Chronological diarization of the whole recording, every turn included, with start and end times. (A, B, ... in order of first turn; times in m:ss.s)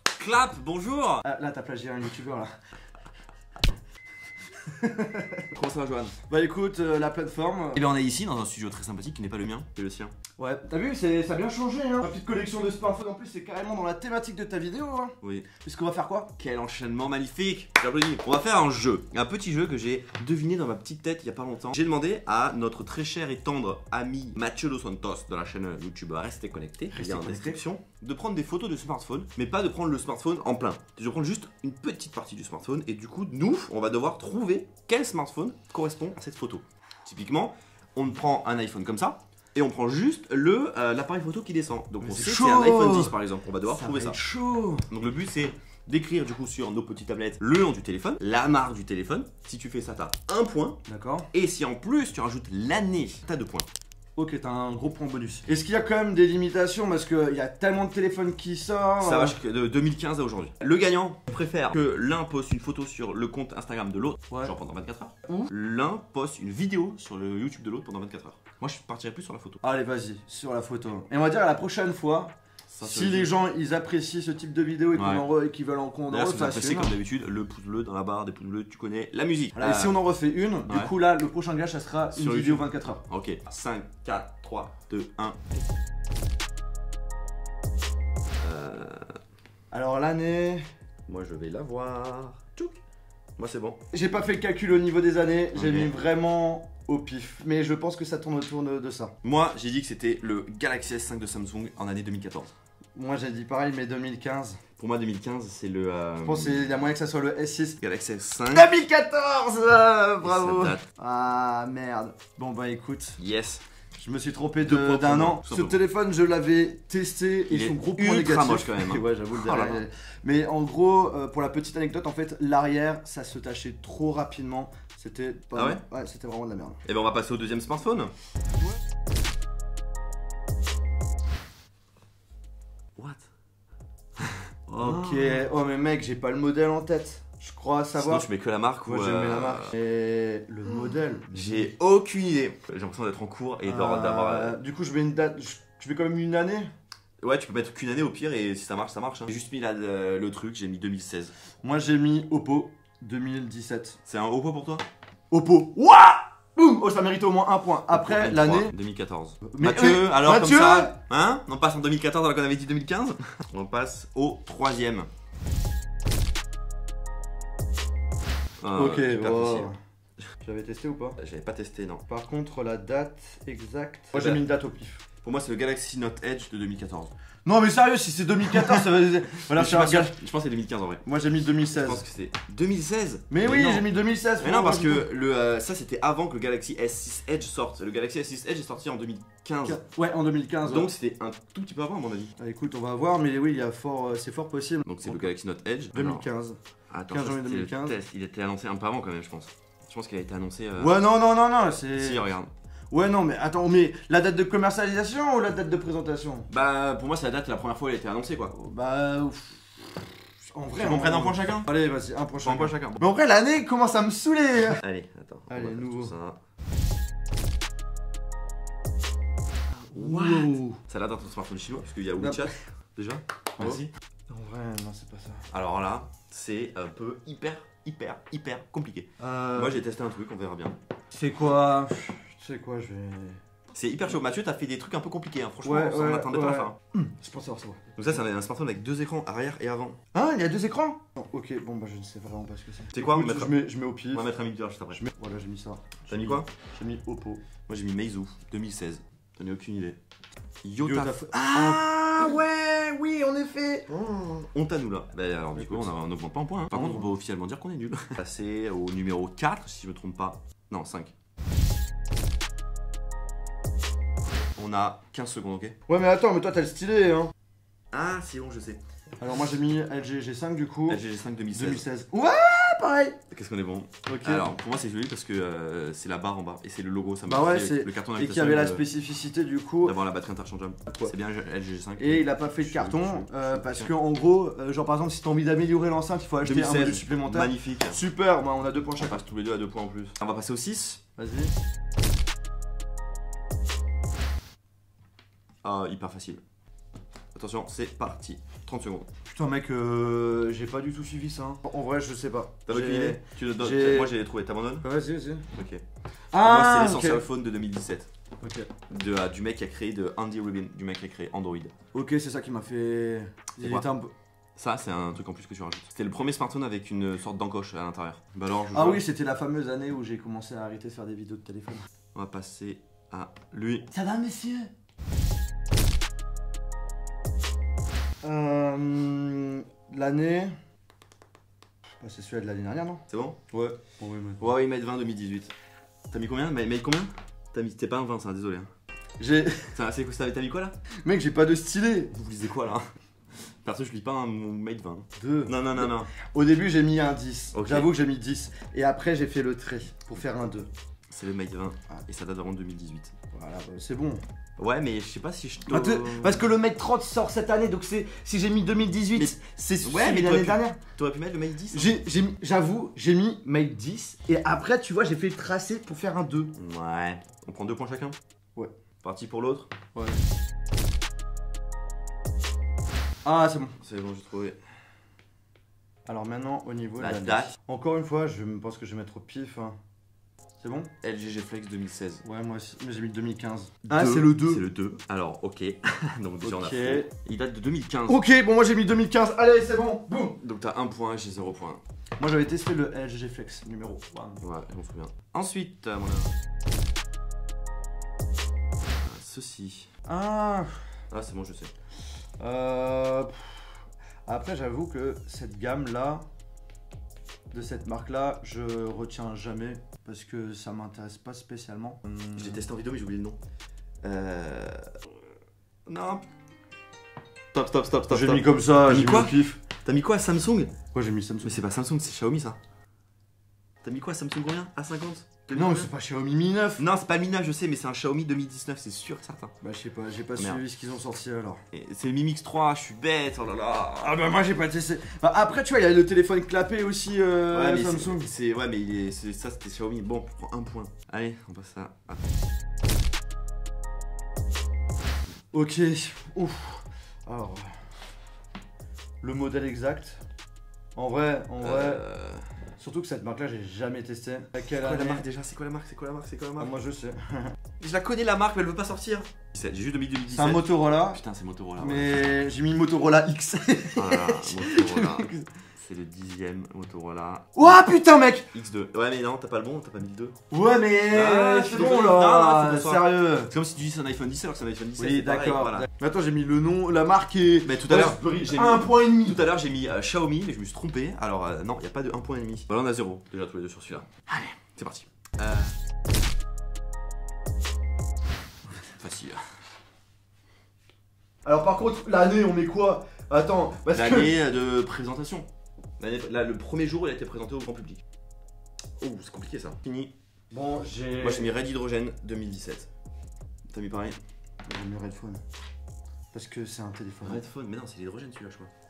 0:00.1-0:01.2 A
0:01.2-0:02.5 B
0:04.7-0:05.4 B
0:05.5-0:06.2 A
0:06.2-0:07.9 B
0:07.7-0:10.1 A
0:10.4-0:16.3 B
0:15.2-0:15.5 A
0:16.4-0:44.2 A
0:26.9-0:27.6 B
0:42.0-0:44.9 B
0:44.9-0:50.8 A
0:50.8-0:51.3 B
0:51.3-0:53.7 A
0:54.2-0:59.4 B
0:59.0-1:09.6 A
1:09.6-1:16.9 B
1:12.7-1:13.3 A
1:14.9-1:15.3 A
1:16.1-1:20.0 A
1:19.6-1:23.0 B
1:20.7-1:20.9 A
1:22.1-1:25.5 A
1:28.4-1:29.1 A
1:29.7-1:30.6 B
1:31.1-1:32.8 A
1:33.4-1:33.8 A
1:33.9-1:39.1 B
1:35.5-1:35.9 A
1:39.2-1:42.5 A
1:42.9-1:44.6 B
1:44.8-1:46.7 A
1:46.2-1:47.8 B
1:47.8-1:48.7 A
1:48.5-1:53.2 B
1:50.2-1:50.8 A
1:53.2-1:53.6 A
1:54.0-2:06.8 B
1:54.6-1:55.8 A
1:57.5-1:59.8 A
2:05.5-2:05.8 A
2:06.8-2:08.1 A
2:13.0-2:13.2 A
2:14.7-2:18.3 B
2:14.8-2:15.4 A
2:18.0-2:19.7 A
2:18.8-2:21.7 B
2:20.8-2:24.6 A
2:23.6-2:26.7 B
2:27.2-2:31.3 A
2:31.6-2:34.0 B
2:34.0-2:34.8 A
2:35.3-2:38.7 B
2:37.9-2:45.1 A
2:39.4-2:41.0 B
2:48.6-2:49.7 A
2:48.7-2:49.8 B
2:50.4-2:51.2 B
2:51.2-2:52.0 A
2:52.1-2:55.0 B
2:54.1-2:54.4 A
2:55.2-2:57.1 A
2:57.4-3:00.1 B
2:59.5-3:01.0 A
3:01.0-3:02.0 B
3:01.6-3:09.8 A
3:03.3-3:05.1 B
3:09.6-3:10.9 B
3:10.6-3:12.3 A
3:12.4-3:15.3 B
3:14.8-3:16.2 A
3:15.9-3:16.6 B
3:16.9-3:21.0 A
3:17.1-3:18.0 B
3:20.8-3:22.3 B
3:21.9-3:22.5 A
3:22.9-3:26.5 B
3:26.5-3:28.5 A
3:28.5-3:34.8 B
3:30.7-3:31.7 A
3:32.4-3:33.0 A
3:34.8-3:36.4 A
3:35.5-3:36.1 B
3:39.9-3:40.8 B
3:39.9-3:43.9 A
3:42.1-3:42.5 B
3:43.6-3:45.4 B
3:45.5-3:50.8 A
3:49.2-3:49.8 B
3:51.1-3:53.4 B
3:53.7-3:56.7 A
3:55.6-3:57.8 B
3:58.0-4:00.0 A
4:00.1-4:04.3 B
4:02.9-4:03.6 A
4:04.1-4:05.0 A
4:04.9-4:07.4 B
4:06.1-4:06.5 A
4:07.6-4:10.0 A
4:10.6-4:12.5 A
4:10.8-4:13.9 B
4:13.9-4:21.1 A
4:15.6-4:15.9 B
4:16.7-4:17.1 B
4:24.5-4:25.8 A
4:25.9-4:27.3 B
4:27.9-4:28.8 A
4:29.2-4:31.0 B
4:30.9-4:31.8 A
4:31.5-4:33.2 B
4:33.3-4:38.8 A
4:34.0-4:34.5 B
4:37.2-4:40.0 B
4:39.8-4:43.9 A
4:42.0-4:49.2 B
4:46.4-4:48.0 A
4:49.0-4:51.0 A
4:51.2-4:51.5 B
4:55.6-4:56.4 A
4:57.3-4:59.1 A
4:59.2-5:04.1 B
5:02.7-5:04.8 A
5:04.8-5:05.4 B
5:05.5-5:05.8 A
5:06.3-5:07.2 B
5:06.3-5:08.1 A
5:08.4-5:08.7 B
5:08.9-5:11.7 A
5:11.9-5:14.1 B
5:13.6-5:13.8 A
5:14.6-5:19.0 A
5:18.7-5:21.8 B
5:22.1-5:23.9 A
5:23.9-5:24.7 B
5:28.2-5:30.5 B
5:32.0-5:34.5 B
5:33.1-5:33.4 A
5:34.4-5:35.5 A
5:36.1-5:38.7 A
5:39.2-5:39.7 B
5:39.7-5:40.8 A
5:41.0-5:42.1 B
5:42.1-5:42.8 A
5:43.6-5:46.1 A
5:45.2-5:50.7 B
5:47.5-5:47.9 A
5:51.1-5:53.1 A
5:53.3-5:54.2 B
5:54.6-5:56.5 A
5:55.7-6:00.8 B
5:59.1-6:01.9 A
6:01.7-6:06.5 B
6:06.6-6:08.2 A
6:09.0-6:09.7 A
6:09.9-6:10.2 B
6:13.2-6:13.8 B
6:13.8-6:14.6 A
6:16.0-6:19.8 B
6:17.0-6:17.5 A
6:20.6-6:20.9 B
6:21.0-6:22.2 A
6:22.2-6:24.6 B
6:23.8-6:28.2 A
6:26.4-6:27.1 B
6:28.1-6:30.4 B
6:30.4-6:31.8 A
6:32.2-6:34.4 B
6:34.4-6:36.3 A
6:38.9-6:39.9 A
6:40.0-6:40.8 B
6:41.1-6:41.7 A
6:42.4-6:43.7 B
6:44.2-6:46.2 B
6:47.5-6:52.6 B
6:52.3-6:53.4 A
6:54.0-6:54.8 A
6:55.8-6:56.3 A
6:57.5-7:00.7 A
6:58.1-6:59.6 B
7:00.9-7:01.6 B
7:01.4-7:02.6 A
7:03.8-7:05.9 A
7:05.5-7:06.8 B
7:06.8-7:09.5 A
7:09.6-7:11.6 B
7:10.4-7:10.6 A
7:11.7-7:14.4 A
7:14.0-7:18.3 B
7:17.5-7:22.2 A
7:25.5-7:28.0 B
7:29.2-7:30.2 B
7:31.0-7:32.0 B
7:31.6-7:32.4 A
7:32.8-7:35.2 B
7:34.6-7:36.7 A
7:36.6-7:37.6 B
7:37.8-7:42.2 A
7:40.3-7:41.2 B
7:41.8-7:45.5 B
7:44.0-7:47.8 A
7:47.5-7:48.5 B
7:48.5-7:50.3 A
7:50.5-7:53.5 B
7:51.1-7:55.9 A
7:55.0-7:59.4 B
7:57.6-8:05.8 A
8:09.0-8:09.4 A
8:11.4-8:14.3 B
8:13.9-8:15.5 A
8:16.0-8:18.0 A
8:19.0-8:20.1 A
8:20.5-8:21.5 B
8:21.2-8:22.9 A
8:23.7-8:24.2 A
8:24.7-8:25.4 B
8:26.3-8:27.4 B
8:27.2-8:28.7 A